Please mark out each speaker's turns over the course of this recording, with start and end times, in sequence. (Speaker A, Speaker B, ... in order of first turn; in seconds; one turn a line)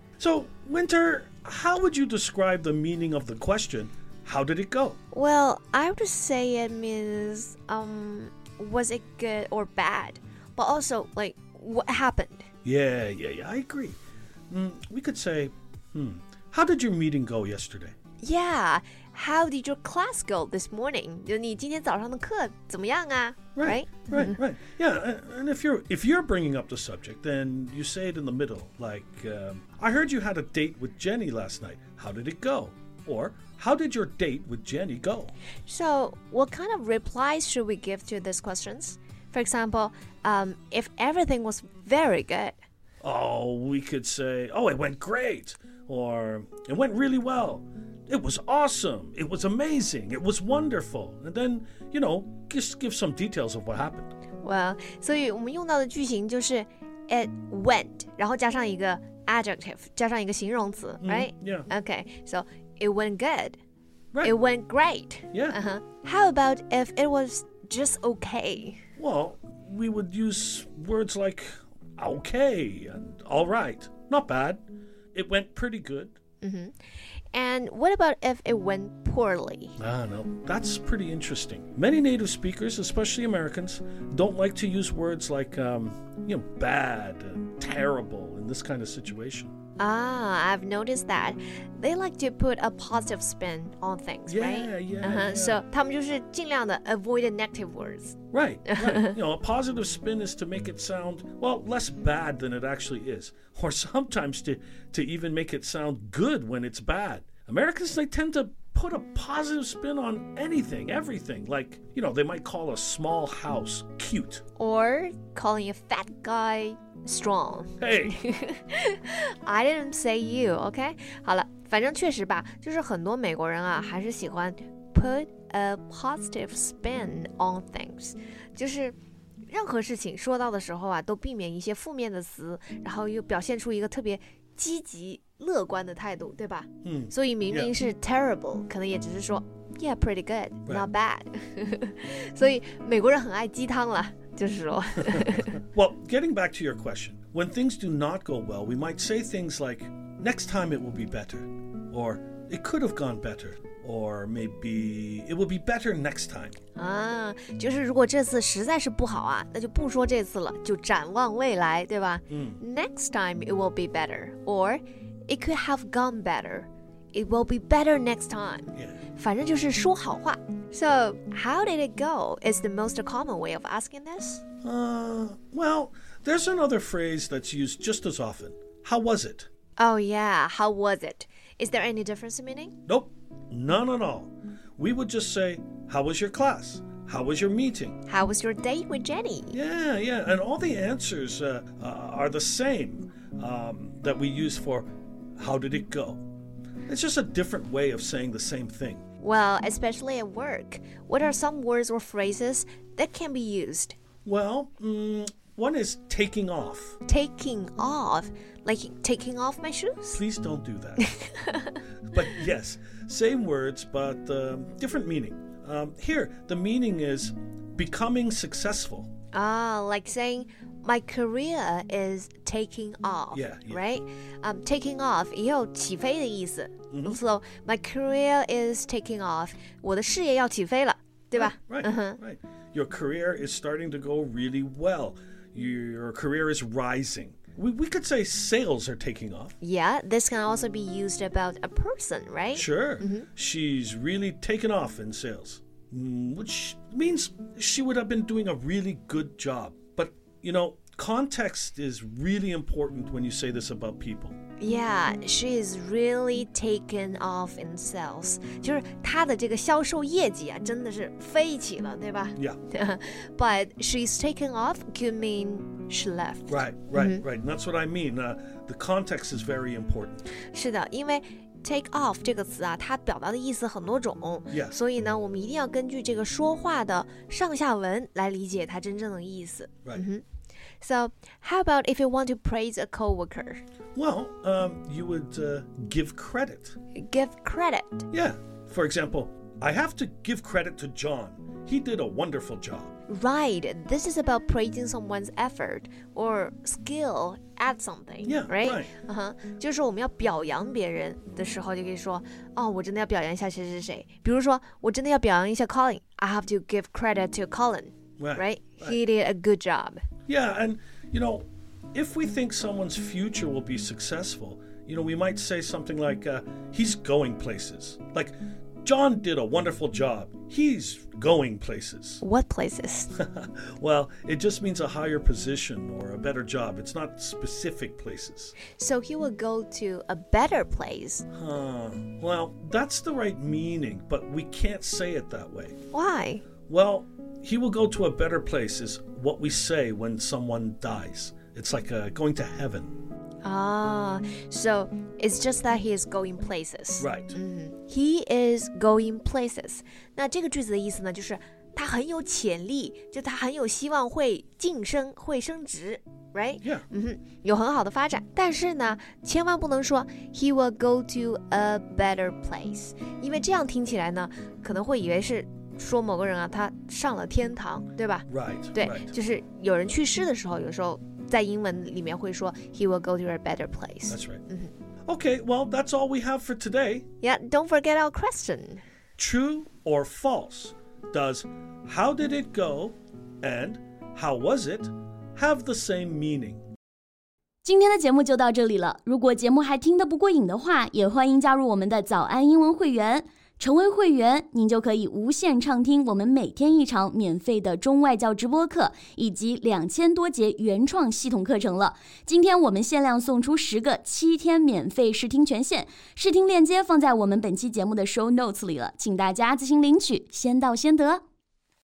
Speaker A: 0.2-5.0
Speaker B: 5.1-12.4
Speaker A: 12.6-14.0
Speaker A: 14.5-17.9
Speaker B: 18.2-24.4
Speaker A: 23.6-35.3
Speaker B: 35.7-42.6
Speaker A: 43.0-54.1
Speaker B: 54.4-63.6
Speaker A: 61.0-61.7
Speaker B: 64.2-68.8
Speaker A: 65.3-65.6
Speaker A: 69.0-76.2
Speaker B: 76.4-79.8
Speaker A: 79.8-89.5
Speaker B: 89.8-99.1
Speaker A: 94.3-95.6
Speaker A: 98.3-114.4
Speaker B: 114.6-129.0
Speaker A: 117.8-118.2
Speaker B: 129.5-145.6
Speaker A: 136.8-137.7
Speaker A: 145.1-156.6
Speaker B: 156.8-174.4
Speaker A: 162.3-162.6
Speaker A: 174.6-179.5
Speaker B: 179.8-182.8
Speaker A: 182.9-188.0
Speaker B: 188.1-189.6
Speaker A: 189.5-196.2
Speaker A: 196.9-199.0
Speaker B: 199.2-203.9
Speaker A: 204.2-207.0
Speaker B: 207.1-210.2
Speaker A: 210.1-211.1
Speaker B: 211.0-211.8
Speaker A: 212.1-219.1
Speaker B: 219.3-232.2
Speaker A: 223.3-223.8
Speaker A: 226.9-227.2
Speaker A: 231.3-239.6
Speaker B: 239.6-243.3
Speaker A: 242.5-254.3
Speaker B: 254.6-267.2
Speaker A: 266.5-270.2
Speaker B: 270.5-280.2
Speaker A: 274.5-274.8
Speaker B: 280.8-283.6
Speaker A: 283.9-286.8
Speaker B: 286.9-288.1
Speaker A: 288.1-292.9
Speaker B: 293.1-310.0
Speaker A: 298.2-298.9
Speaker A: 308.2-309.0
Speaker A: 310.3-322.2
Speaker B: 322.2-323.1
Speaker A: 323.1-328.6
Speaker B: 328.7-331.2
Speaker A: 331.3-335.8
Speaker B: 335.9-336.4
Speaker A: 336.7-342.9
Speaker B: 343.4-374.7
Speaker A: 347.0-347.4
Speaker A: 356.6-356.9
Speaker A: 368.3-369.1
Speaker A: 374.1-374.4
Speaker A: 375.1-377.1
Speaker B: 377.2-378.8
Speaker A: 379.2-386.6
Speaker C: 387.6-411.2